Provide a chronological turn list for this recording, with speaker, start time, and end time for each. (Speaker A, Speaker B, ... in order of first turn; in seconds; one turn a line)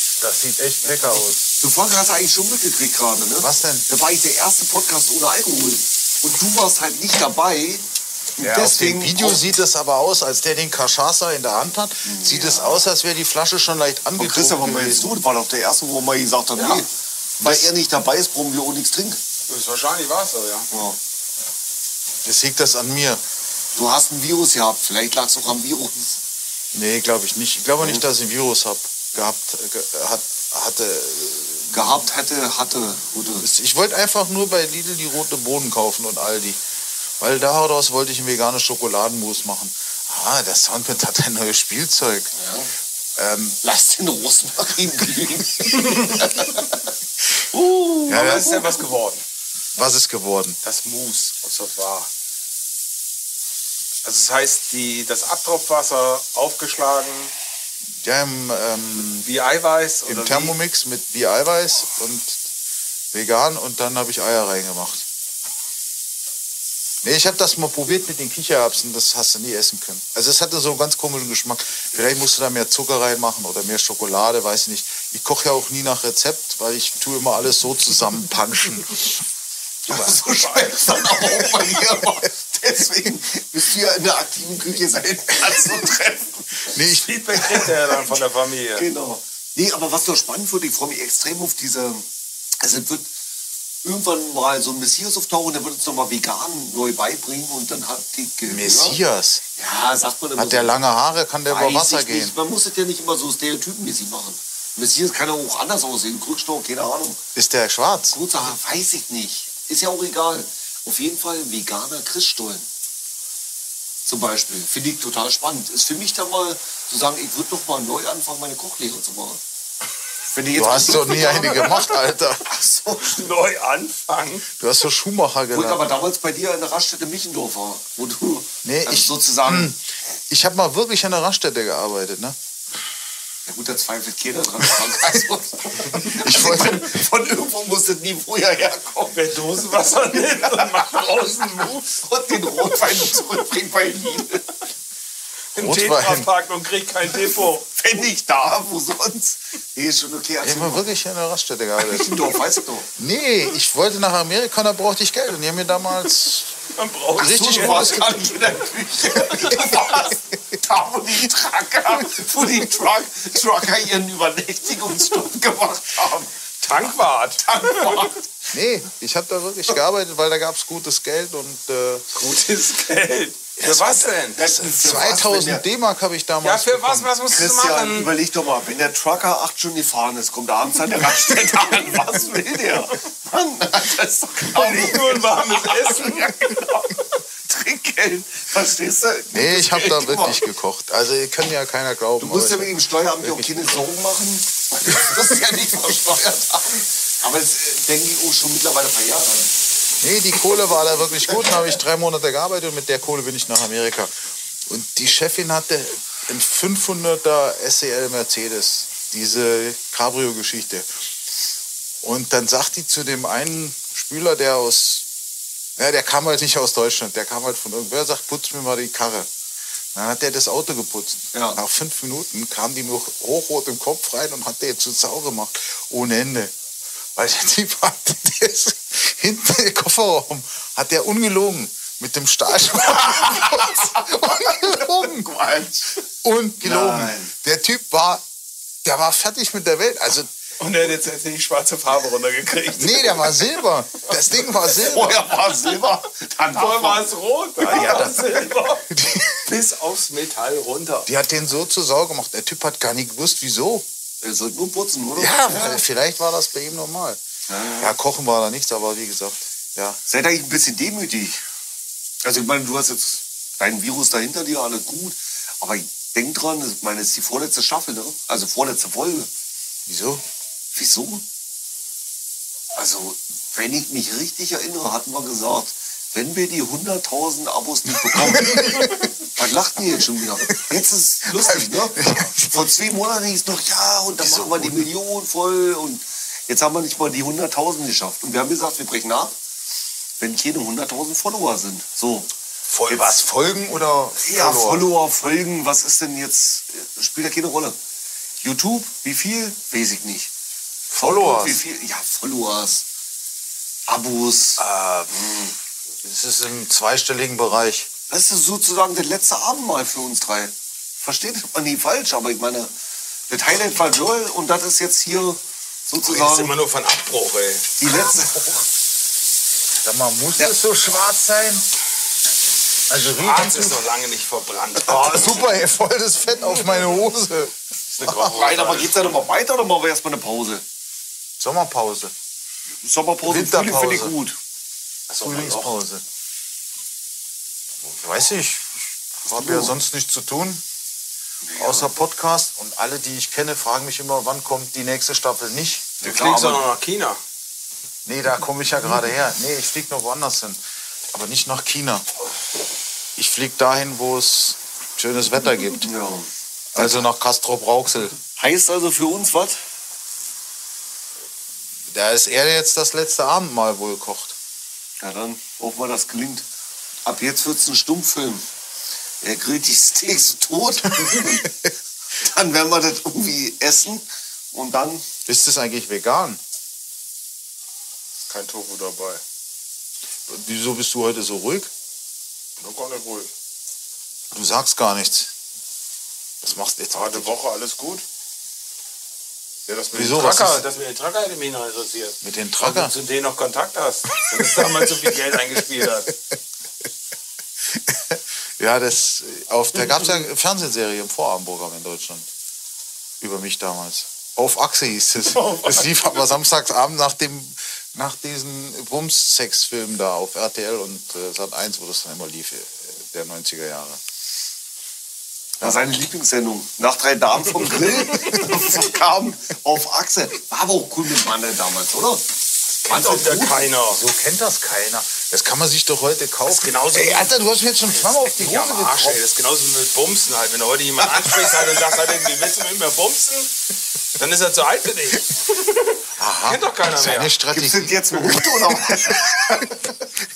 Speaker A: 0.2-1.4
Speaker B: 1.6-7.8
Speaker A: 3.4-3.9
Speaker B: 8.4-9.5
Speaker A: 8.4-15.1
Speaker B: 12.0-12.8
Speaker B: 14.2-19.2
Speaker A: 17.4-17.7
Speaker C: 19.5-20.7
Speaker B: 20.7-21.0
Speaker A: 22.2-23.2
Speaker B: 23.7-26.2
Speaker A: 26.7-32.0
Speaker B: 31.7-33.5
Speaker A: 33.4-36.6
Speaker A: 37.2-42.3
Speaker B: 42.3-42.7
Speaker A: 43.1-43.6
Speaker B: 43.6-46.8
Speaker B: 47.5-48.8
Speaker A: 48.1-48.6
Speaker C: 48.1-49.2
Speaker A: 49.8-50.6
Speaker C: 50.6-52.1
Speaker C: 54.0-57.3
Speaker A: 58.0-59.3
Speaker C: 59.2-60.5
Speaker A: 60.0-62.4
Speaker A: 63.1-65.0
Speaker A: 67.0-79.2
Speaker B: 79.9-86.8
Speaker C: 79.9-80.8
Speaker A: 81.2-82.1
Speaker A: 85.5-85.8
Speaker A: 86.6-87.6
Speaker C: 86.9-88.9
Speaker B: 87.6-88.2
Speaker B: 88.7-92.1
Speaker B: 92.6-93.1
Speaker B: 93.8-99.0
Speaker A: 98.5-99.4
Speaker B: 99.5-100.8
Speaker A: 100.4-102.3
Speaker B: 101.5-107.2
Speaker A: 107.3-108.2
Speaker B: 108.1-112.7
Speaker B: 114.0-119.4
Speaker B: 120.3-121.7
Speaker A: 120.5-122.5
Speaker C: 120.9-122.0
Speaker B: 122.4-123.3
Speaker C: 123.1-124.5
Speaker A: 124.6-125.8
Speaker B: 125.5-129.7
Speaker A: 128.6-132.3
Speaker B: 133.4-144.4
Speaker A: 135.8-137.0
Speaker C: 139.1-142.0
Speaker C: 142.5-142.9
Speaker C: 145.5-147.6
Speaker A: 145.6-146.3
Speaker B: 147.1-150.8
Speaker A: 150.4-152.3
Speaker B: 151.8-152.9
Speaker A: 152.9-156.5
Speaker C: 156.7-158.2
Speaker B: 157.2-168.3
Speaker A: 157.2-158.2
Speaker C: 159.2-160.1
Speaker C: 166.6-168.1
Speaker A: 168.5-172.1
Speaker C: 172.1-174.4
Speaker A: 173.6-177.1
Speaker B: 174.3-175.6
Speaker C: 176.4-178.1
Speaker B: 177.3-190.5
Speaker C: 181.1-182.9
Speaker C: 184.5-186.6
Speaker A: 189.3-193.8
Speaker B: 192.2-199.5
Speaker A: 200.0-204.1
Speaker A: 204.7-210.9
Speaker A: 212.0-215.1
Speaker A: 215.8-219.3
Speaker A: 219.9-226.5
Speaker B: 221.3-221.6
Speaker A: 227.2-235.3
Speaker C: 232.7-233.2
Speaker B: 234.4-236.0
Speaker A: 236.0-238.2
Speaker B: 236.6-237.3
Speaker A: 238.8-240.3
Speaker C: 240.6-243.6
Speaker A: 242.7-245.3
Speaker C: 244.1-244.8
Speaker B: 244.8-247.1
Speaker C: 246.5-248.9
Speaker A: 247.6-249.5
Speaker B: 247.6-248.1
Speaker C: 249.4-251.1
Speaker A: 251.1-253.8
Speaker B: 254.2-255.8
Speaker A: 255.2-257.2
Speaker B: 257.5-257.9
Speaker A: 257.8-260.0
Speaker B: 260.1-261.4
Speaker B: 262.2-269.3
Speaker A: 269.9-270.2
Speaker B: 270.7-271.2
Speaker B: 272.7-289.3
Speaker A: 277.9-279.1
Speaker A: 281.3-282.7
Speaker A: 284.2-284.9
Speaker B: 290.2-292.3
Speaker A: 292.7-294.9
Speaker B: 292.9-293.2
Speaker B: 294.2-297.8
Speaker B: 298.4-300.3
Speaker A: 300.9-301.6
Speaker B: 301.0-302.9
Speaker B: 303.9-305.5
Speaker A: 304.6-305.2
Speaker A: 306.0-307.9
Speaker B: 308.1-312.7
Speaker B: 313.3-316.5
Speaker C: 316.0-317.7
Speaker B: 317.8-318.6
Speaker A: 319.8-321.7
Speaker A: 322.9-323.8
Speaker C: 323.1-325.5
Speaker A: 324.8-328.5
Speaker C: 327.9-329.2
Speaker B: 328.1-330.6
Speaker A: 331.4-332.1
Speaker B: 332.8-334.4
Speaker A: 333.2-334.1
Speaker C: 335.1-335.7
Speaker A: 335.2-336.0
Speaker A: 337.8-340.6
Speaker B: 339.3-339.8
Speaker B: 341.4-341.9
Speaker A: 341.6-345.9
Speaker B: 346.0-346.7
Speaker C: 346.0-347.2
Speaker A: 348.1-350.6
Speaker A: 351.1-352.0
Speaker A: 353.1-355.9
Speaker B: 355.8-357.1
Speaker A: 356.7-358.1
Speaker B: 358.4-359.6
Speaker A: 361.9-364.3
Speaker B: 365.0-366.4
Speaker B: 367.0-368.4
Speaker B: 369.2-371.5
Speaker A: 371.0-371.5
Speaker B: 372.1-375.0
Speaker A: 375.2-376.4
Speaker C: 378.3-379.2
Speaker A: 380.3-381.7
Speaker C: 382.6-383.3
Speaker A: 384.3-385.3
Speaker A: 386.4-387.4
Speaker C: 386.9-388.0
Speaker C: 389.7-396.1
Speaker A: 389.9-390.6
Speaker A: 392.2-392.9
Speaker A: 394.4-394.7
Speaker A: 397.7-402.3
Speaker A: 403.2-414.0
Speaker C: 405.3-406.3
Speaker B: 415.6-422.3
Speaker A: 417.6-418.7
Speaker B: 422.8-423.7
Speaker C: 422.8-424.0
Speaker A: 423.9-429.2
Speaker C: 426.4-427.3
Speaker C: 427.9-433.5
Speaker B: 431.0-432.1
Speaker C: 434.2-437.4
Speaker A: 436.2-439.9
Speaker B: 437.5-439.7